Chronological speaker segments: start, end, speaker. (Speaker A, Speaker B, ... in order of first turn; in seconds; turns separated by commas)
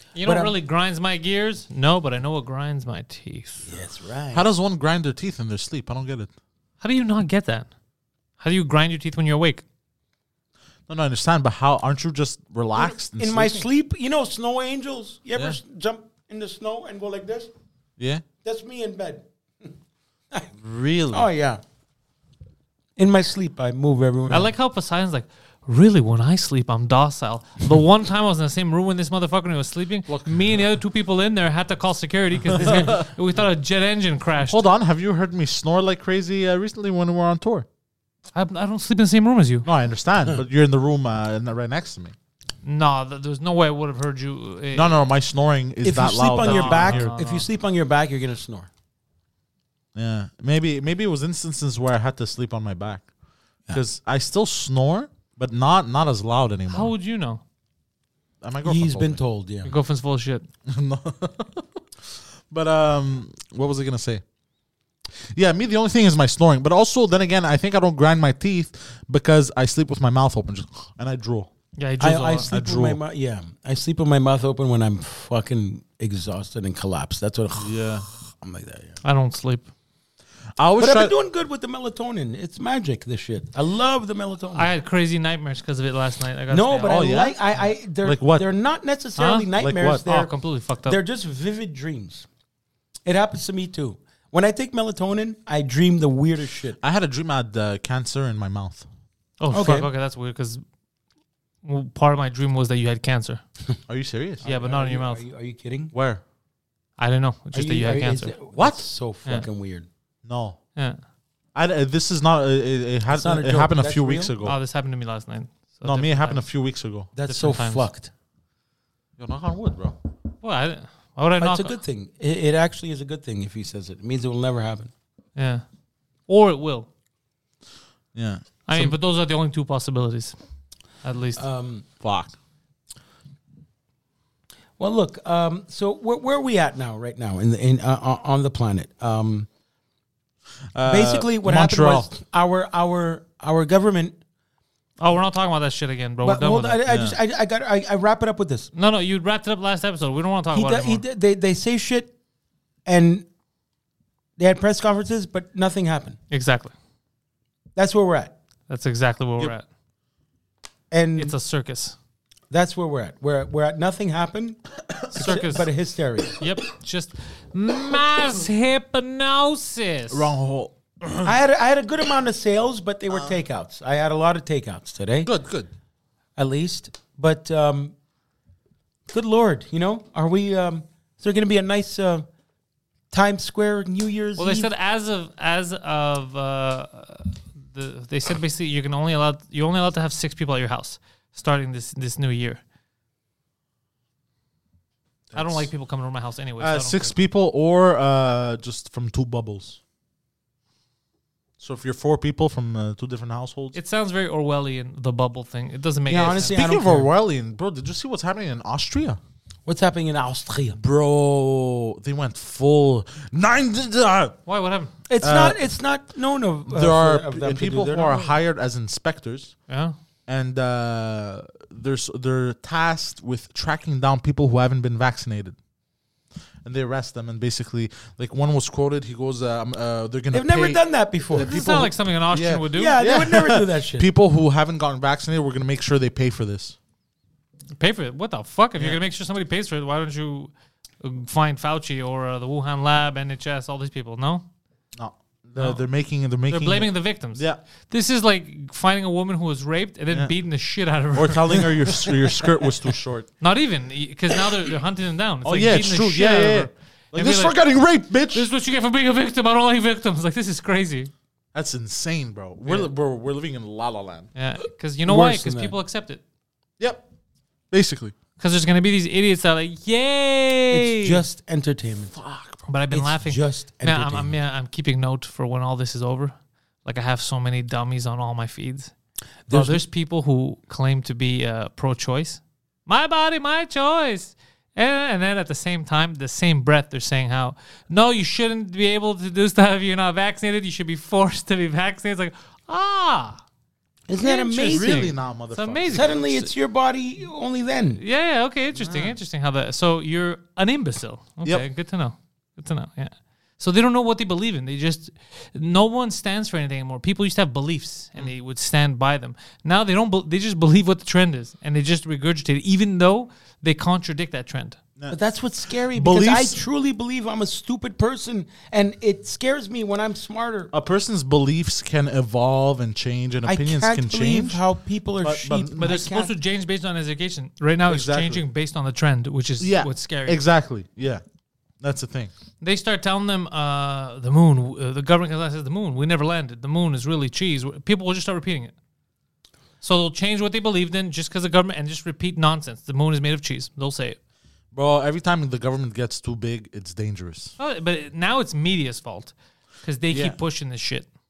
Speaker A: 0.1-3.6, Speaker B: 0.2-0.5, Speaker B: 3.6-4.5, Speaker C: 4.3-6.3, Speaker A: 6.8-7.7, Speaker A: 8.4-9.6, Speaker C: 10.9-13.7, Speaker B: 12.8-17.5, Speaker C: 18.0-18.2, Speaker B: 18.4-19.7, Speaker C: 20.6-21.3, Speaker B: 21.1-21.6, Speaker B: 23.0-24.5, Speaker A: 24.3-34.6, Speaker C: 30.1-30.4, Speaker C: 32.5-33.1, Speaker C: 34.4-37.7, Speaker A: 38.3-39.7, Speaker C: 39.6-42.1, Speaker A: 42.6-45.0, Speaker C: 44.7-47.1, Speaker B: 45.8-48.7, Speaker A: 46.4-47.5, Speaker C: 49.9-53.1, Speaker C: 53.7-56.9, Speaker A: 56.7-57.4, Speaker C: 58.4-59.2, Speaker B: 58.6-59.7, Speaker A: 59.6-60.5, Speaker C: 60.6-64.2, Speaker C: 65.3-71.5, Speaker A: 71.8-72.5, Speaker B: 72.0-77.8, Speaker C: 72.5-73.0, Speaker C: 77.6-78.1, Speaker B: 78.4-79.0, Speaker A: 79.0-79.7, Speaker C: 80.6-81.1, Speaker B: 80.8-84.7, Speaker A: 84.5-87.1, Speaker B: 86.5-90.3, Speaker C: 86.8-87.4, Speaker C: 88.0-88.5, Speaker A: 89.2-89.5, Speaker C: 89.6-90.0, Speaker A: 90.0-91.0, Speaker B: 90.8-92.3, Speaker B: 93.0-96.8, Speaker C: 96.8-98.8, Speaker A: 99.4-100.6, Speaker B: 99.5-99.9, Speaker A: 101.6-103.4, Speaker C: 103.9-104.4, Speaker B: 104.4-105.9, Speaker A: 104.4-105.2, Speaker C: 105.9-106.2, Speaker A: 107.0-108.3, Speaker B: 107.5-109.9, Speaker C: 108.5-108.9, Speaker C: 110.2-110.6, Speaker C: 111.5-114.6, Speaker B: 113.1-114.3, Speaker A: 114.4-116.4, Speaker C: 115.8-117.1, Speaker B: 117.1-118.1, Speaker A: 117.2-117.9, Speaker C: 119.2-120.0, Speaker A: 120.4-121.8, Speaker B: 121.4-124.9, Speaker A: 125.3-125.6, Speaker A: 126.3-126.9, Speaker C: 128.1-128.9, Speaker A: 128.7-130.3, Speaker A: 131.0-131.4, Speaker B: 131.4-131.8, Speaker C: 132.0-132.3, Speaker B: 134.8-139.5, Speaker C: 140.7-142.1, Speaker B: 140.8-144.2, Speaker A: 145.0-146.8, Speaker B: 146.2-148.7, Speaker C: 146.9-147.2, Speaker A: 148.7-151.0, Speaker B: 150.5-152.1, Speaker B: 152.8-153.2, Speaker B: 154.4-156.2, Speaker A: 156.3-156.7, Speaker B: 157.8-158.3, Speaker A: 158.7-159.6, Speaker B: 160.9-161.3, Speaker A: 161.2-161.9, Speaker B: 162.5-164.6, Speaker B: 165.1-166.3, Speaker A: 165.1-165.7, Speaker A: 166.4-170.3, Speaker C: 170.1-171.3, Speaker B: 171.2-175.3, Speaker C: 175.2-175.7, Speaker B: 176.3-177.9, Speaker B: 179.1-182.2, Speaker B: 183.1-184.7, Speaker A: 184.4-192.6, Speaker C: 195.3-195.7, Speaker A: 195.3-197.1, Speaker C: 196.6-199.8, Speaker C: 201.6-203.8, Speaker A: 203.7-206.5, Speaker B: 206.1-207.1, Speaker C: 206.3-209.2, Speaker B: 209.7-210.8, Speaker C: 210.8-214.4, Speaker A: 214.4-214.9, Speaker B: 215.1-218.1, Speaker C: 215.2-215.6, Speaker C: 216.7-219.6, Speaker A: 219.7-219.9, Speaker C: 220.3-225.6, Speaker C: 226.6-230.8, Speaker B: 230.3-231.9, Speaker C: 231.3-231.8, Speaker A: 231.3-233.0, Speaker C: 232.3-236.8, Speaker B: 232.7-234.1, Speaker A: 237.8-244.4, Speaker C: 244.9-247.6, Speaker A: 245.6-245.8, Speaker A: 246.5-251.7, Speaker C: 251.1-253.3, Speaker A: 253.4-257.6, Speaker C: 255.4-258.5, Speaker A: 258.3-261.1, Speaker C: 261.5-264.3, Speaker A: 264.3-266.2, Speaker B: 265.1-265.7, Speaker C: 266.8-267.0, Speaker C: 267.7-268.1, Speaker A: 268.4-271.2, Speaker B: 270.7-272.2, Speaker C: 272.1-272.6, Speaker A: 272.7-278.9, Speaker B: 272.9-274.3, Speaker B: 279.5-279.8, Speaker A: 279.5-293.4, Speaker B: 294.1-295.1, Speaker A: 294.2-296.5, Speaker C: 294.3-296.2, Speaker B: 295.9-298.0, Speaker A: 298.0-314.8, Speaker C: 298.7-299.1, Speaker B: 315.1-320.7, Speaker C: 315.9-316.6, Speaker C: 320.7-324.6, Speaker B: 323.4-326.3, Speaker C: 325.2-326.0, Speaker A: 325.8-330.4, Speaker C: 327.9-328.4, Speaker C: 329.6-331.2, Speaker C: 331.8-332.3, Speaker A: 332.6-338.7, Speaker A: 339.8-344.2, Speaker C: 344.7-347.5, Speaker A: 347.6-351.1, Speaker C: 350.1-350.4